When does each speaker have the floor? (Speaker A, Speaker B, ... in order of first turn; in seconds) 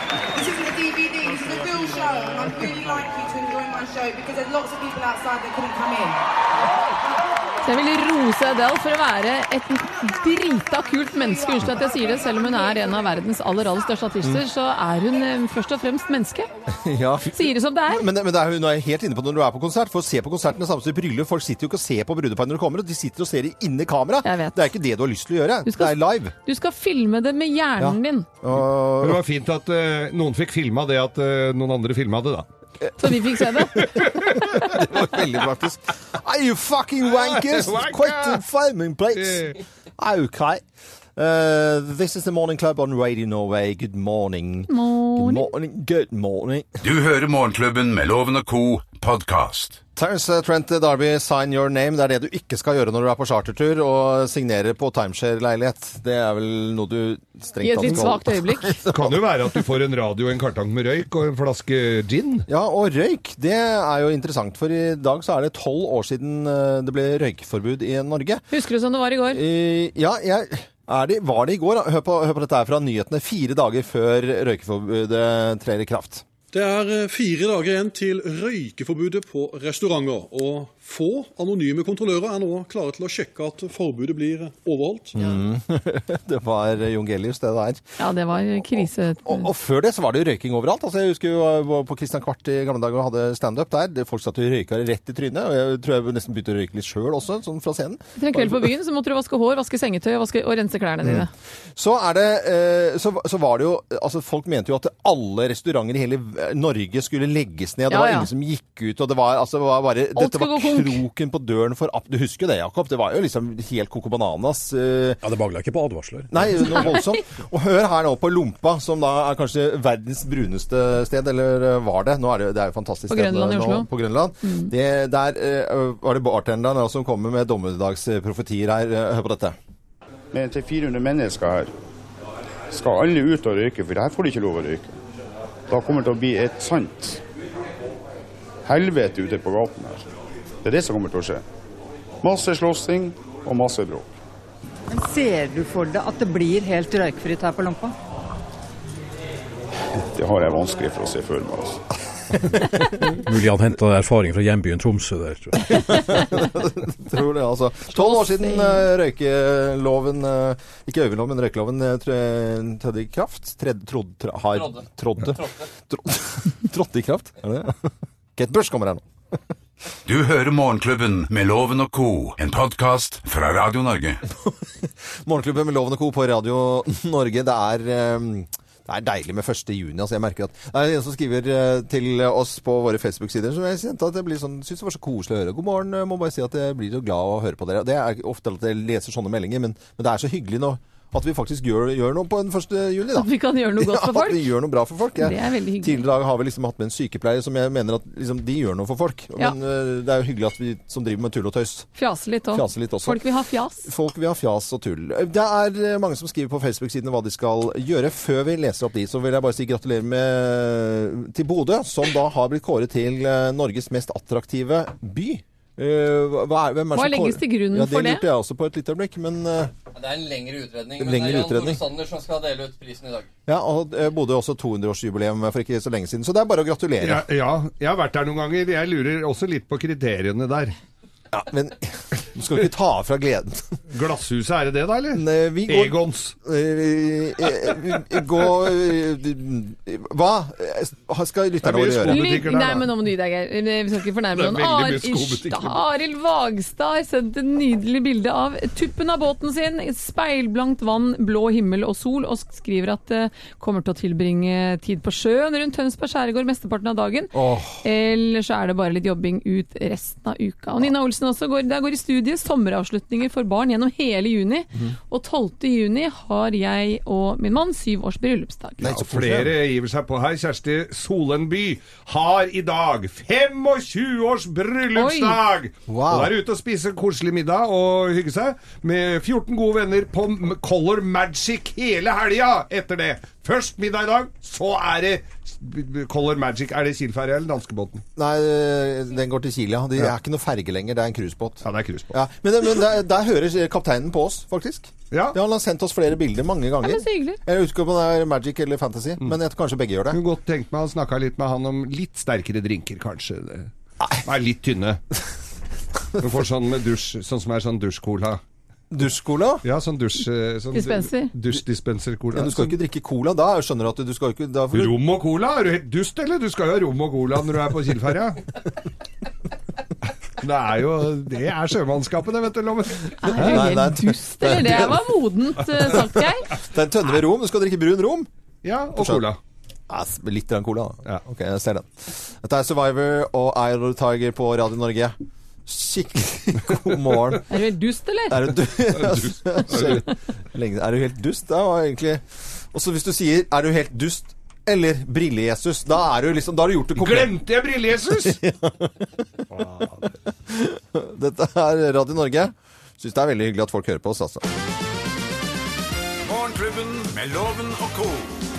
Speaker A: 0.3-6.2
Speaker B: 7.6-16.5, 17.3-18.1, 24.2-24.7, 25.6-28.3, 33.0-33.9, 44.7-45.5, 57.6-58.8, 68.5-69.4, 88.0-89.5, 98.2-101.3, 107.9-108.3, 110.2-111.0, 123.1-123.9, 124.4-124.7, 157.9-158.9, 193.1-194.5, 195.2-196.0, 201.9-203.9, 216.9-218.3, 242.1-269.0, 274.9-275.4, 296.8-297.4, 310.7-311.3, 323.2-326.5, 337.5-338.5
Speaker C: 16.7-26.3, 27.8-29.2, 34.0-40.6, 41.1-46.7, 50.0-59.2, 62.5-68.4, 69.3-76.2, 85.1-87.8, 88.6-98.7, 101.0-115.2, 116.3-129.6, 155.7-169.0, 174.3-201.9, 202.5-203.2, 203.8-219.7, 221.0-221.9, 223.5-227.2, 231.3-233.7, 235.1-242.2, 257.3-257.8, 268.8-269.5, 275.9-276.3, 288.1-300.2, 308.9-309.6, 312.3-314.9, 323.3-325.0, 326.5-328.3, 328.9-329.2, 329.9-337.4, 338.3-347.4, 348.2-349.4, 350.3-354.5
Speaker D: 29.0-32.5, 33.8-34.9, 37.1-38.4, 39.1-39.6, 58.9-62.5, 227.0-230.8, 233.9-236.3, 241.6-242.9, 244.3-245.8, 269.0-288.0, 291.6-292.2, 295.1-295.4, 300.1-305.0, 306.2-308.4, 309.6-312.8, 314.7-318.4, 320.4-323.6, 328.6-329.4, 338.9-340.1, 347.0-348.4, 349.5-350.1
Speaker E: 46.8-49.8, 170.1-174.2, 356.2-358.4
Speaker F: 76.5-85.2
Speaker G: 115.2-117.0, 152.6-155.8
Speaker H: 130.3-131.7, 132.7-134.9, 135.7-137.2, 138.6-140.1, 140.6-141.4, 142.2-144.1, 150.1-151.8
Speaker I: 144.9-147.9
Speaker J: 164.5-165.6, 219.9-223.3